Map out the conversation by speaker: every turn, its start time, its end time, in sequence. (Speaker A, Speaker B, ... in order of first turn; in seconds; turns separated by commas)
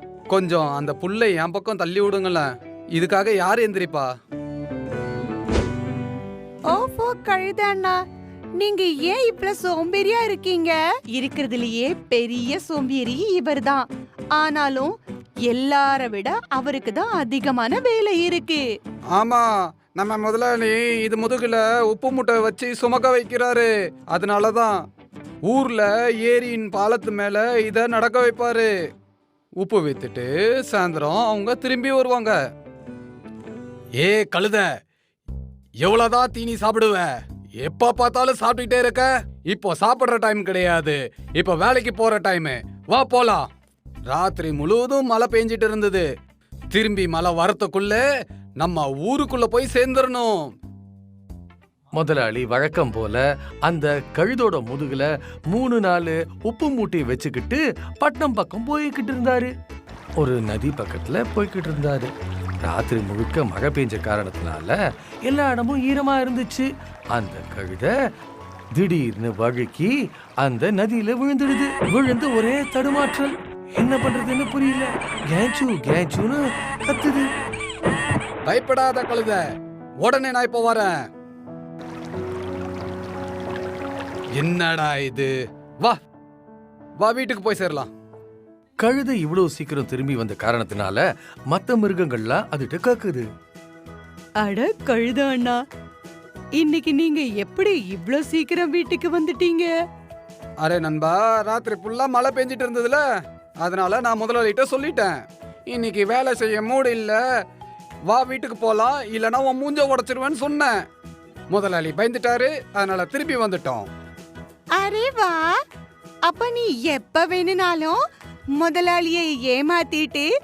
Speaker A: 0.3-4.1, Speaker B: 6.7-8.0, Speaker B: 8.6-15.0, Speaker B: 15.5-18.6, Speaker A: 19.1-24.9, Speaker A: 25.4-28.7, Speaker A: 29.6-32.4, Speaker A: 34.0-34.7, Speaker A: 35.8-43.5, Speaker A: 44.1-46.1, Speaker A: 46.7-48.0, Speaker A: 48.6-50.5, Speaker C: 52.0-59.5, Speaker C: 60.2-62.1, Speaker C: 62.6-67.9, Speaker C: 68.8-77.3, Speaker A: 78.5-79.4, Speaker A: 80.0-81.0, Speaker A: 84.4-86.0, Speaker A: 87.0-87.9, Speaker C: 88.8-93.3, Speaker B: 94.4-95.6, Speaker B: 96.6-99.7, Speaker A: 100.6-103.0, Speaker A: 103.6-107.2, Speaker A: 108.1-110.8, Speaker A: 111.5-113.9, Speaker B: 114.8-115.6, Speaker B: 116.3-118.0, Speaker B: 118.6-120.3